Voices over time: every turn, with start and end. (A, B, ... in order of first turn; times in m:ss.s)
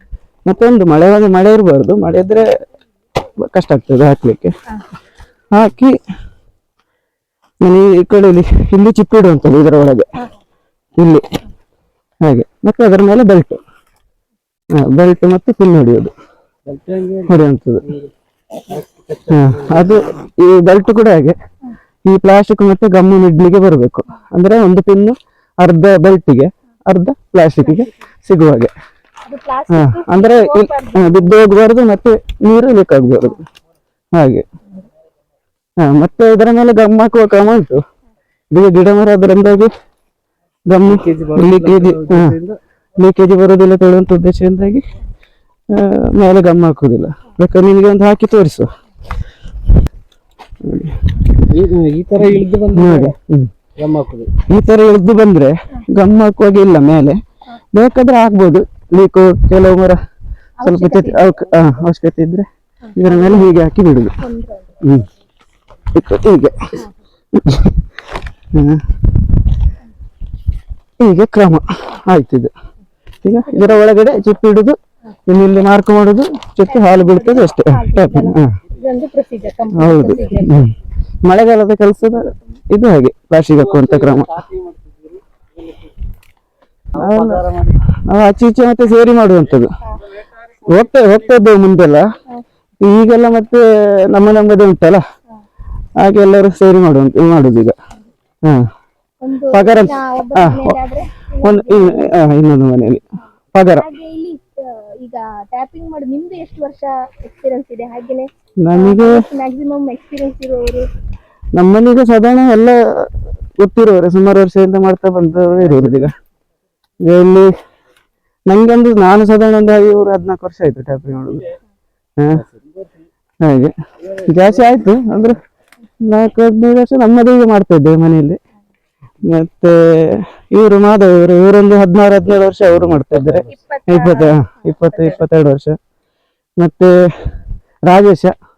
0:00.4-0:02.5 A
0:03.4-0:04.5 A
0:05.5-0:06.0 A
0:07.6-0:10.1 A
0:11.0-0:11.2 A
0:12.2-0:13.6 A
0:14.7-0:16.1 A
0:16.6-0:18.1 B
0:17.3-0:17.8 A
0:18.6-0:19.9 B
0:19.3-0:21.4 A
0:22.0-0:28.7 A
0:29.2-0:31.3 C
0:29.7-0:33.4 A
0:34.1-0:34.4 A
0:35.8-0:37.8 A
0:38.5-0:39.7 A
0:40.7-0:42.4 A
0:40.8-0:42.6 B
0:43.0-0:44.8 A
0:45.7-0:48.7 A
0:50.6-0:51.3 A
0:51.5-0:53.1 B
0:52.7-0:53.5 A
0:53.8-0:54.3 B
0:54.4-0:57.2 A
0:57.7-1:00.0 A
1:00.6-1:01.2 C
1:00.6-1:04.2 A
1:02.8-1:03.5 C
1:04.2-1:04.8 C
1:04.8-1:05.1 A
1:05.9-1:06.8 A
1:07.3-1:07.9 A
1:08.5-1:09.1 A
1:11.0-1:12.5 A
1:13.2-1:18.5 A
1:13.5-1:13.8 C
1:16.7-1:20.6 C
1:19.7-1:20.7 A
1:21.2-1:24.4 A
1:26.9-1:29.7 A
1:27.0-1:27.7 B
1:30.6-1:32.0 A
1:32.8-1:35.0 A
1:36.0-1:37.7 A
1:38.4-1:38.7 A
1:39.2-1:42.1 C
1:39.5-1:40.8 A
1:41.4-1:43.9 A
1:43.7-1:50.9 C
1:48.6-1:49.2 A
1:51.5-1:56.1 A
1:57.0-1:57.5 A
1:58.5-2:01.5 A
2:02.2-2:02.4 A
2:03.4-2:05.4 A
2:06.0-2:08.4 A
2:09.2-2:15.8 A
2:13.5-2:15.2 C
2:16.6-2:18.3 A